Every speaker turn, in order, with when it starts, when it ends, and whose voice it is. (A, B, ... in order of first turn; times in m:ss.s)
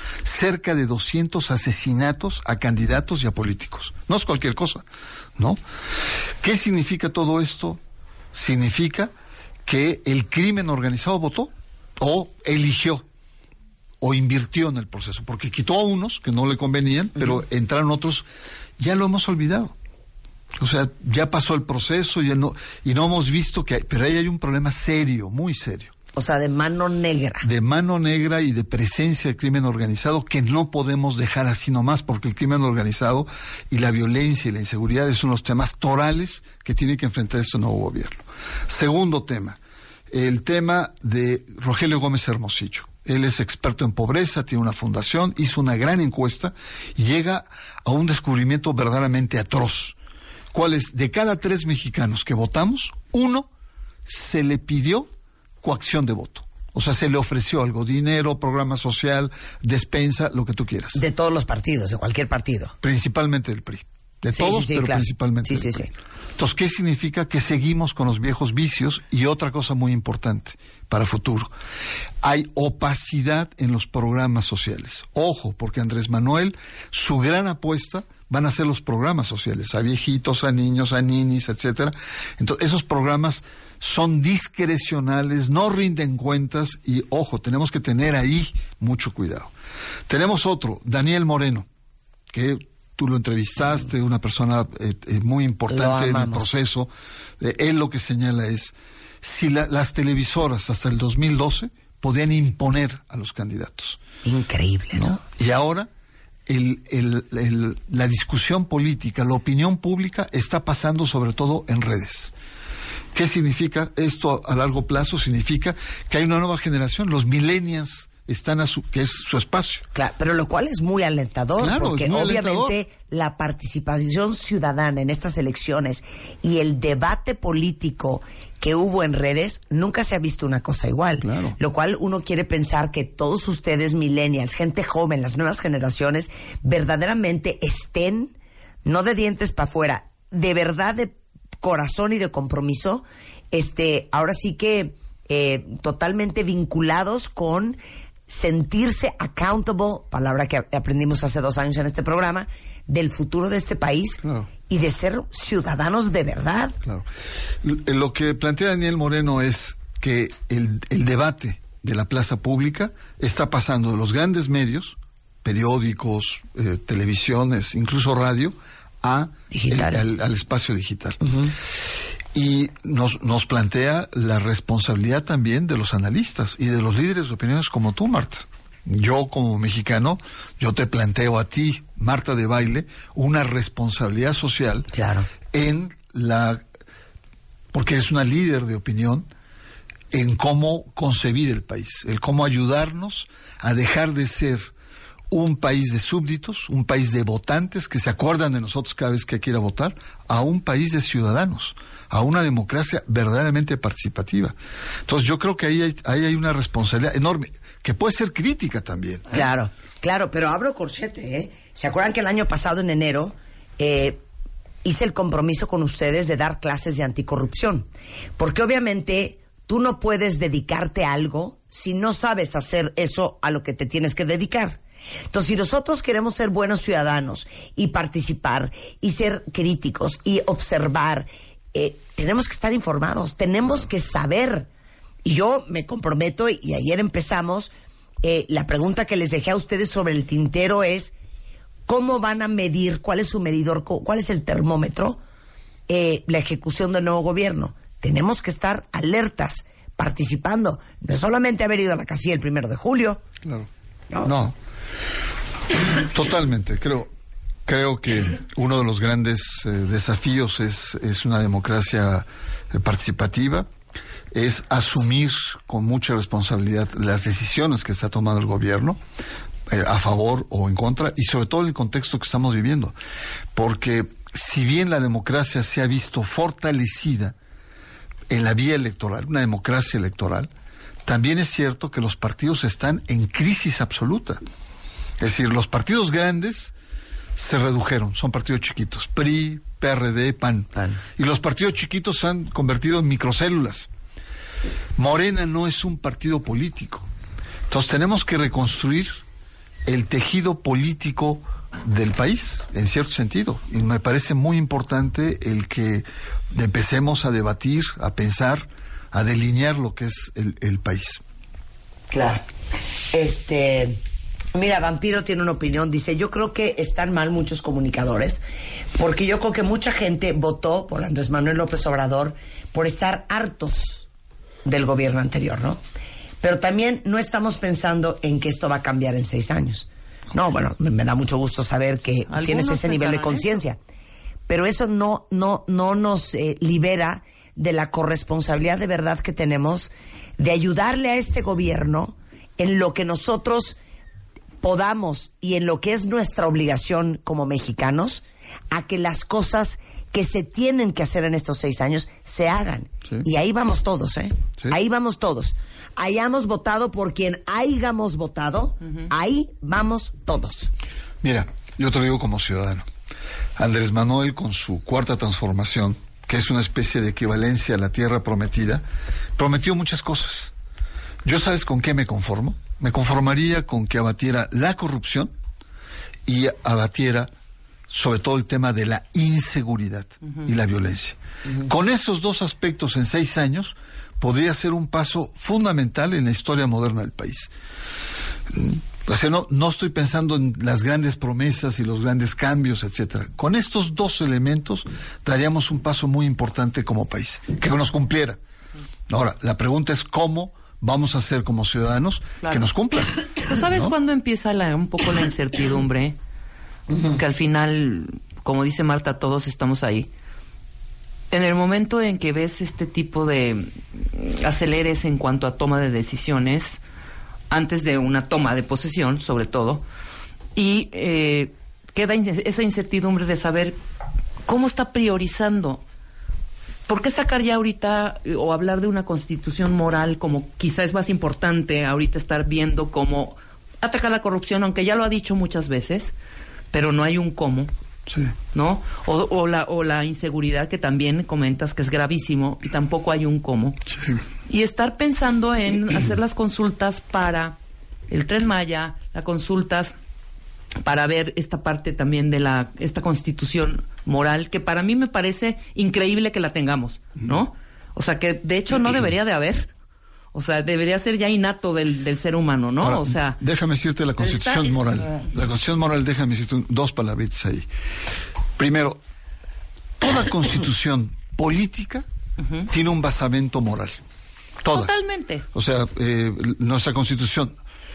0:00.2-0:04.8 A
0:06.4-0:07.8 A
0:08.3-0:09.1 A
0:09.6-0:13.0 A
0:14.0-0:18.3 A
0:18.8-0:19.8 A
0:20.6-0:25.9 A
0:26.2-0:27.4 B
0:27.4-0:39.6 A
0:40.1-0:50.0 A
0:50.5-0:53.5 A
0:54.1-0:55.1 A
0:55.6-1:01.0 A
1:01.0-1:02.7 B
1:02.8-1:11.5 A
1:04.3-1:05.9 B
1:12.2-1:29.5 A
1:30.1-1:31.7 A
1:32.3-1:44.0 A
1:35.7-1:36.6 B
1:44.2-1:45.2 B
1:44.9-1:45.9 A
1:46.5-1:52.3 A
1:53.1-1:59.8 A
2:00.0-2:18.3 B
2:01.6-2:02.8 A
2:11.2-2:11.6 A
2:18.8-2:36.8 B
2:34.2-2:34.5 A
2:37.6-2:51.2 A
2:49.5-2:50.0 B
2:51.2-2:51.5 B
2:52.3-3:04.9 A
3:04.9-3:05.3 B
3:05.5-3:06.6 A
3:07.7-3:09.3 A
3:10.1-3:14.7 A
3:15.3-3:24.6 A
3:25.1-3:29.5 A
3:29.3-3:34.2 B
3:34.8-3:37.9 B
3:38.4-3:44.8 B
3:45.3-3:54.7 B
3:55.2-3:57.7 B
3:58.2-4:01.1 B
4:01.9-4:05.2 B
4:05.9-4:13.2 B
4:13.4-4:13.7 A
4:14.2-4:14.6 A
4:16.0-4:17.1 A
4:17.7-4:23.7 A
4:24.3-4:29.0 A
4:29.7-4:33.0 A
4:33.6-4:37.4 A
4:38.3-4:40.5 A
4:41.0-4:44.4 A
4:45.2-4:46.7 A
4:47.4-4:53.9 A
4:55.0-4:57.1 A
4:57.7-4:59.2 A
4:59.9-5:11.2 A
5:12.1-5:12.4 B
5:13.1-5:14.0 B
5:14.5-5:18.4 B
5:19.0-5:24.1 B
5:24.6-5:25.8 B
5:26.4-5:33.8 B
5:32.3-5:33.5 C
5:34.5-5:43.8 B
5:44.6-6:00.7 B
6:01.2-6:02.9 A
6:03.6-6:08.8 A
6:09.4-6:10.5 A
6:11.2-6:15.3 A
6:16.3-6:17.3 A
6:17.9-6:27.5 A
6:28.5-6:38.4 A
6:39.1-6:44.0 A
6:43.4-6:46.2 C
6:47.1-6:50.1 C
6:51.3-6:56.8 C
6:57.5-6:59.8 C
7:00.6-7:03.8 C
7:04.4-7:05.8 C
7:06.9-7:16.1 C
7:16.7-7:17.7 C
7:18.1-7:18.3 A
7:18.5-7:23.8 C
7:24.5-7:27.6 C
7:28.1-7:30.0 C
7:30.8-7:39.7 C
7:40.3-7:43.4 C
7:42.8-7:47.7 A
7:44.2-7:45.2 C
7:48.6-7:49.0 A
7:50.0-7:52.0 A
7:52.7-7:54.0 A
7:54.6-7:55.0 A
7:54.7-7:55.4 C
7:55.5-7:57.6 A